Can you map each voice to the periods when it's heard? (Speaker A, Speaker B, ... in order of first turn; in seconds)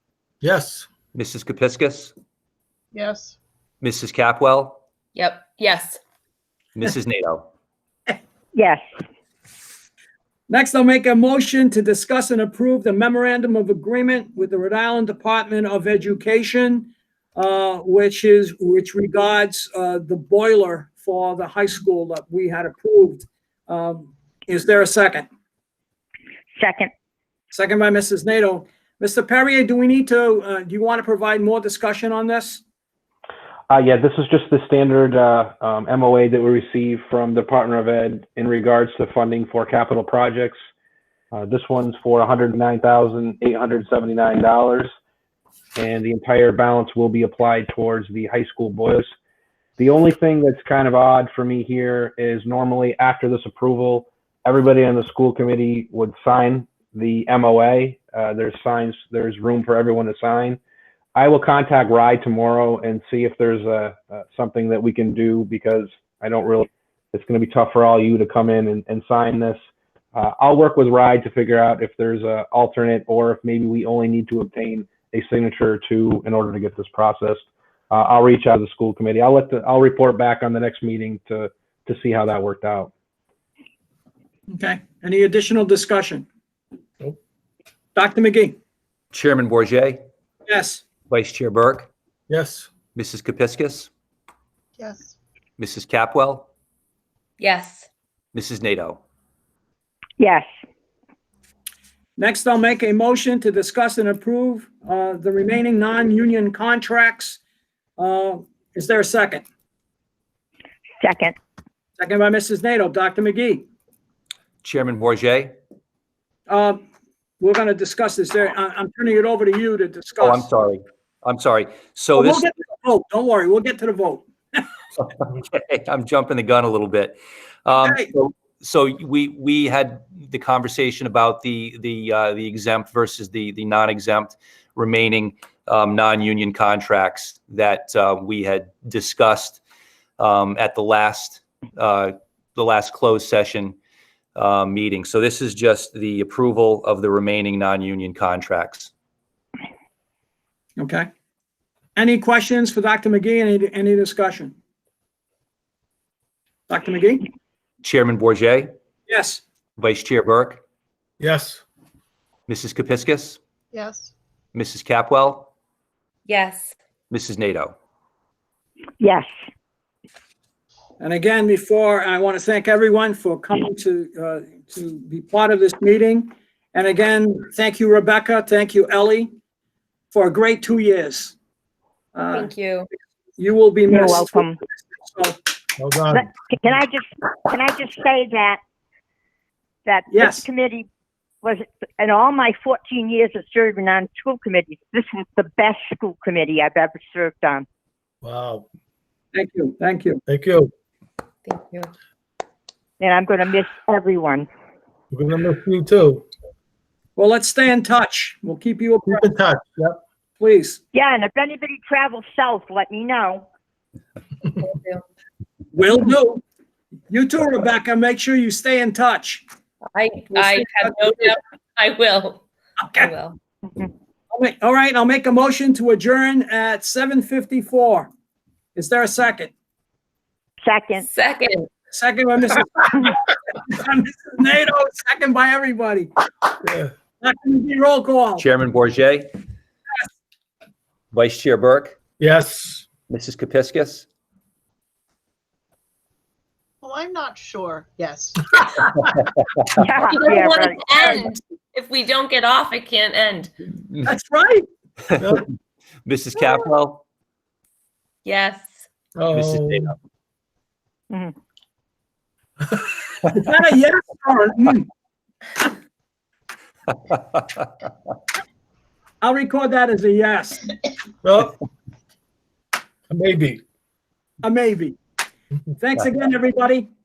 Speaker A: 0.4-0.9, 92.3-92.7, 161.2-161.6, 185.8-186.3, 198.2-198.7, 200.3-200.7, 205.1-206.3, 209.0-210.0, 236.6-236.9, 242.2-242.9, 255.2-255.4, 259.2-259.9, 271.2-271.5, 273.1-273.6
Speaker B: 1.1-2.1, 3.8-4.8, 6.8-7.5, 89.1-90.0, 91.1-91.9, 93.0-93.9, 95.6-96.5, 98.3-99.0, 114.6-115.5, 120.2-122.5, 125.2-139.6, 140.2-143.8, 144.3-148.9, 157.8-158.7, 159.8-160.6, 162.5-163.4, 164.5-165.5, 167.1-167.8, 238.4-239.3, 241.1-242.0, 243.1-244.1, 256.1-257.0, 259.3-259.9
Speaker C: 2.9-3.4, 94.8-95.2, 163.7-164.1, 246.8-248.8
Speaker D: 5.2-6.0, 97.4-97.9, 166.3-166.7, 182.3-182.9, 201.4-201.9, 214.5-215.0, 219.9-222.4, 223.0-223.4, 231.1-231.7, 250.1-253.5, 258.2-258.7
Speaker E: 8.5-8.8, 26.6-26.9, 100.2-100.5, 111.0-111.3, 169.0-169.3, 183.9-184.6, 186.1-188.6, 189.8-190.9, 191.4-197.7, 203.0-204.5, 210.9-213.5, 230.6-231.1, 249.8-251.1
Speaker F: 10.5-16.9, 17.4-25.3, 27.5-32.6, 84.5-86.2, 88.0-88.5, 90.5-90.8, 102.2-107.4, 108.0-109.4, 112.0-113.6, 116.5-116.8, 117.4-120.4, 122.2-124.6, 152.0-154.5, 156.7-157.2, 159.1-159.4, 171.0-179.3, 180.1-181.3, 182.2-182.4, 183.4-184.4, 185.1-185.3, 199.4-200.1, 207.2-209.3, 210.4-210.8, 215.7-216.4, 217.1-219.4, 224.4-228.1, 228.8-229.5, 231.9-236.0, 237.2-238.4, 254.1-254.6, 263.5-264.8, 269.2-270.7, 274.4-274.9, 275.8-276.9
Speaker G: 33.7-40.6, 41.3-44.9, 45.8-49.1, 49.8-60.6, 61.1-69.6, 70.1-82.9